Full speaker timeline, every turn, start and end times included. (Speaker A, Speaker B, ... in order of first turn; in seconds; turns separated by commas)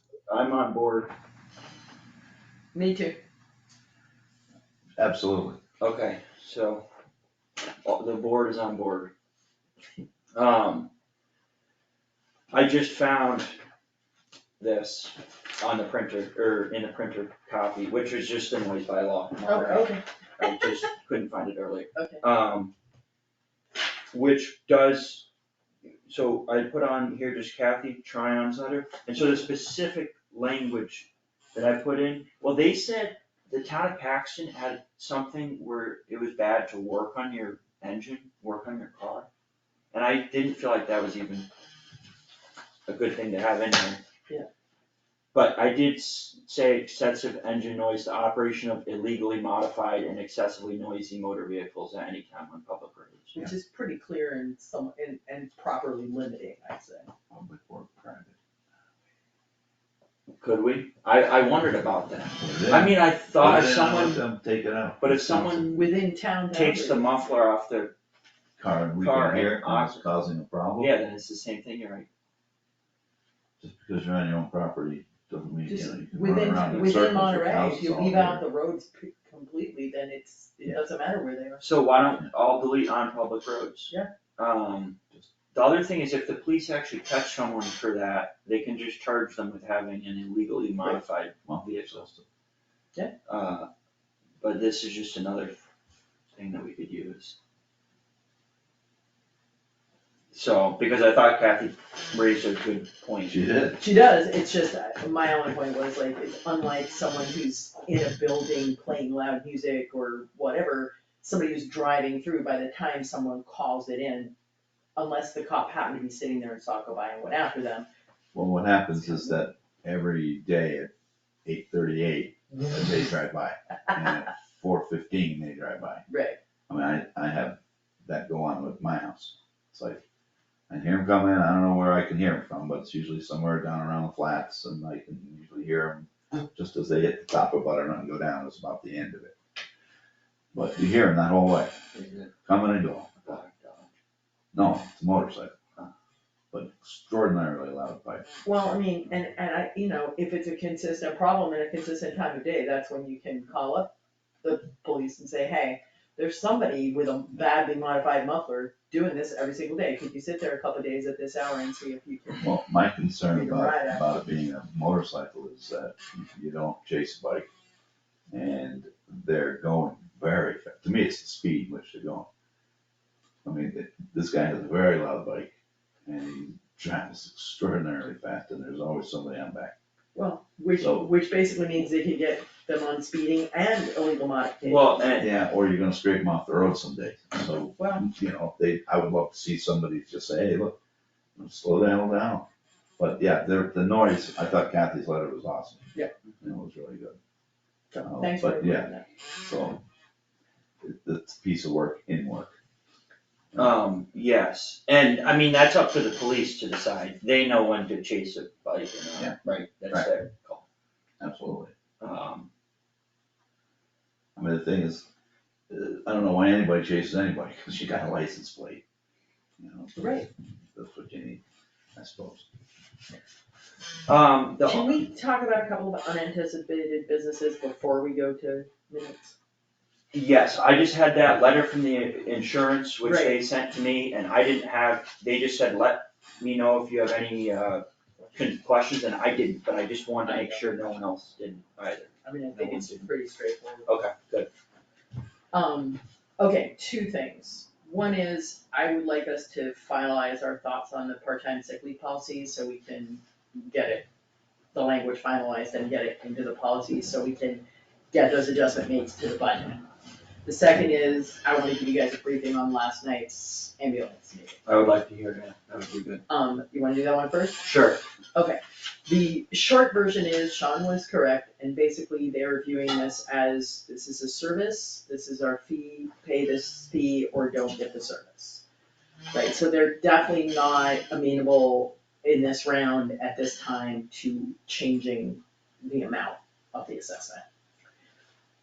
Speaker A: 0.3-1.1, Speaker B: 2.7-3.2, Speaker C: 5.0-5.6, Speaker A: 5.8-6.8, Speaker A: 7.8-9.1, Speaker A: 10.3-10.9, Speaker A: 12.5-13.6, Speaker A: 14.6-22.7, Speaker B: 19.4-20.0, Speaker B: 21.9-22.2, Speaker A: 24.1-25.2, Speaker A: 26.1-39.3, Speaker A: 39.9-41.5, Speaker A: 42.9-44.0, Speaker A: 45.3-53.4, Speaker B: 53.3-57.1, Speaker C: 57.3-58.4, Speaker A: 60.4-64.2, Speaker C: 62.4-65.7, Speaker A: 65.0-65.9, Speaker B: 65.7-67.1, Speaker A: 66.5-67.9, Speaker C: 68.6-70.9, Speaker A: 69.0-70.0, Speaker A: 70.8-72.1, Speaker C: 73.6-78.4, Speaker B: 75.7-81.7, Speaker A: 81.6-85.0, Speaker A: 85.5-92.0, Speaker C: 91.5-92.2, Speaker A: 93.3-93.7, Speaker A: 94.4-95.6, Speaker A: 96.3-97.3, Speaker A: 100.3-103.3, Speaker C: 103.3-103.8, Speaker B: 103.8-114.3, Speaker B: 114.9-117.9, Speaker C: 118.3-120.9, Speaker B: 119.0-119.4, Speaker C: 121.4-126.0, Speaker B: 126.1-126.4, Speaker C: 126.7-130.0, Speaker C: 130.7-139.3, Speaker C: 140.5-143.2, Speaker A: 142.0-142.2, Speaker A: 143.2-143.9, Speaker C: 144.5-145.5, Speaker C: 146.5-148.3, Speaker B: 148.4-153.9, Speaker B: 154.4-162.4, Speaker C: 162.3-167.5, Speaker B: 163.3-164.0, Speaker C: 168.3-172.3, Speaker C: 173.4-175.5, Speaker C: 176.1-179.7, Speaker B: 180.1-185.3, Speaker C: 180.8-181.1, Speaker A: 184.6-185.3, Speaker C: 185.2-190.8, Speaker B: 187.8-188.1, Speaker C: 191.3-192.5, Speaker C: 193.0-197.2, Speaker B: 197.9-199.0, Speaker C: 198.0-198.9, Speaker C: 199.4-199.8, Speaker C: 200.8-202.5, Speaker A: 203.6-210.6, Speaker C: 211.2-211.7, Speaker A: 212.0-212.5, Speaker C: 214.3-215.1, Speaker C: 215.7-218.8, Speaker C: 219.6-221.4, Speaker B: 219.9-220.3, Speaker C: 221.9-222.5, Speaker A: 224.1-224.9, Speaker B: 224.6-229.3, Speaker A: 230.1-243.1, Speaker B: 233.0-233.4, Speaker B: 240.2-240.6, Speaker B: 242.2-243.9, Speaker A: 243.9-244.5, Speaker B: 245.5-254.1, Speaker B: 254.7-259.9, Speaker B: 260.4-264.6, Speaker A: 264.6-266.2, Speaker B: 266.3-267.7, Speaker A: 267.6-268.0, Speaker B: 268.3-278.6, Speaker B: 279.3-287.4